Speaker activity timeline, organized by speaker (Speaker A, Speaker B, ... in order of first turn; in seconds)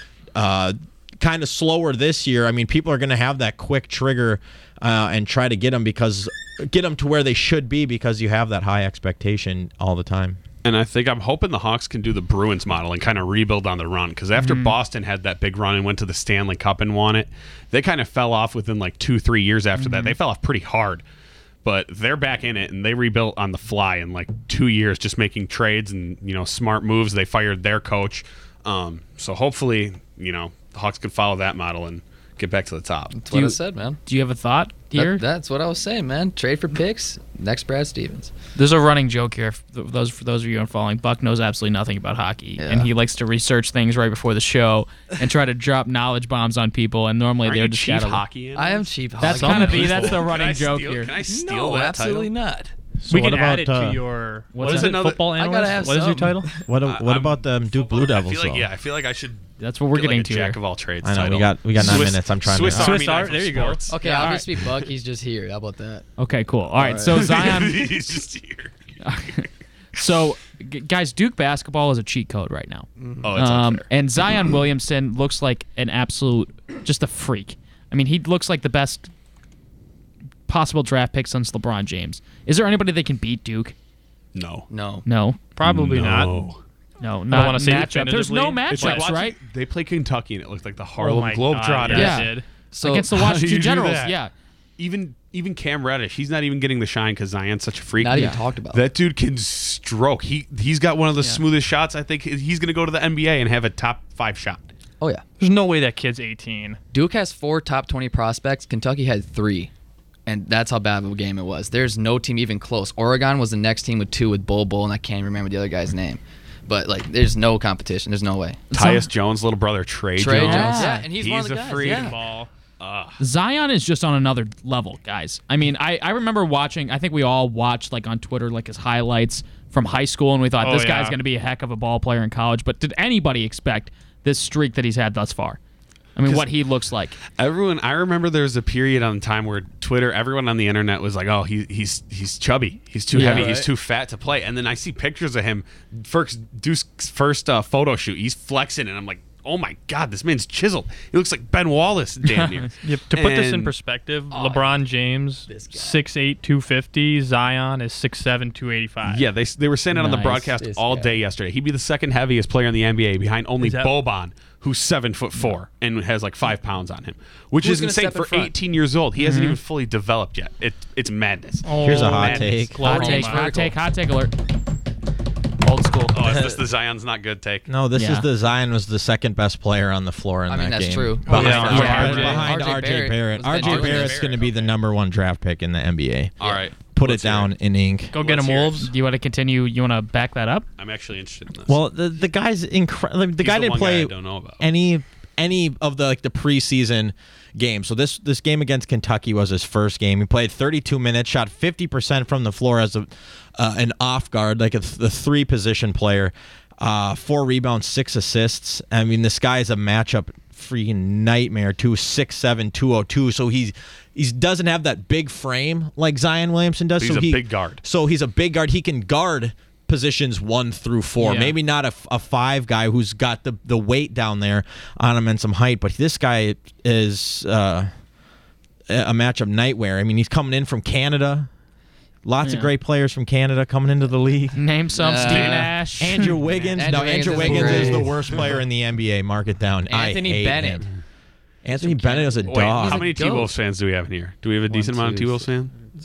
Speaker A: 0.3-10.4, 53.1-54.0, 56.6-58.7, 61.0-63.2, 171.8-172.8, 177.7-186.4, 186.9-188.1, 191.7-227.9, 228.9-231.5, 232.2-234.6, 236.0-240.8, 241.6-243.1
Speaker B: 10.6-21.0, 21.6-33.2, 47.5-52.3, 54.6-55.4, 56.9-63.9, 67.1-68.9, 73.2-73.9, 84.3-84.7, 85.6-86.6, 88.7-92.2, 93.1-94.2, 94.8-104.7, 118.7-122.2, 122.8-123.2, 136.3-136.5, 137.3-153.7, 159.1-173.0, 176.1-177.7, 181.3-182.5, 183.4-184.8, 186.4-187.5, 188.2-188.9, 190.8-191.8, 193.4-194.6, 217.0-217.8, 235.3-235.7, 242.4-245.7
Speaker C: 14.4-14.8, 19.8-20.2, 33.3-35.2, 38.5-48.2, 49.2-51.1, 54.5-55.0, 59.6-60.6, 64.0-64.5, 66.2-67.9, 69.0-79.1, 80.5-83.8, 85.0-85.4, 87.0-89.4, 91.9-94.3, 98.1-98.4, 118.7-119.1, 120.3-121.0, 123.2-135.6, 136.2-137.2, 143.2-143.5, 152.3-152.7, 159.9-160.5, 169.2-169.6, 172.8-174.3, 175.6-176.2, 178.0-178.3, 181.7-182.2, 188.8-190.7, 221.2-221.5, 232.4-232.7, 234.6-236.4
Speaker D: 33.1-34.0, 34.9-38.3, 42.6-42.9, 48.5-50.3, 51.2-52.7, 55.3-56.6, 63.9-66.1, 66.8-67.1, 73.0-73.3, 84.7-85.1, 91.9-93.1, 98.0-98.8, 106.9-109.7, 110.3-118.6, 120.2-122.2, 154.3-154.8, 155.5-156.0, 160.4-161.2, 167.6-168.5, 172.9-173.7, 180.5-184.3, 234.9-235.7, 236.5-238.3, 239.9-240.9, 241.8-243.5, 244.7-245.5
Speaker E: 53.1-56.5, 62.7-64.3, 85.6-86.3, 87.3-89.1, 91.0-92.5, 105.4-106.8, 120.5-120.9, 121.8-122.5, 130.6-131.2, 143.2-143.6, 152.8-159.3, 163.6-163.9, 171.6-173.7, 181.3-182.5, 188.1-188.9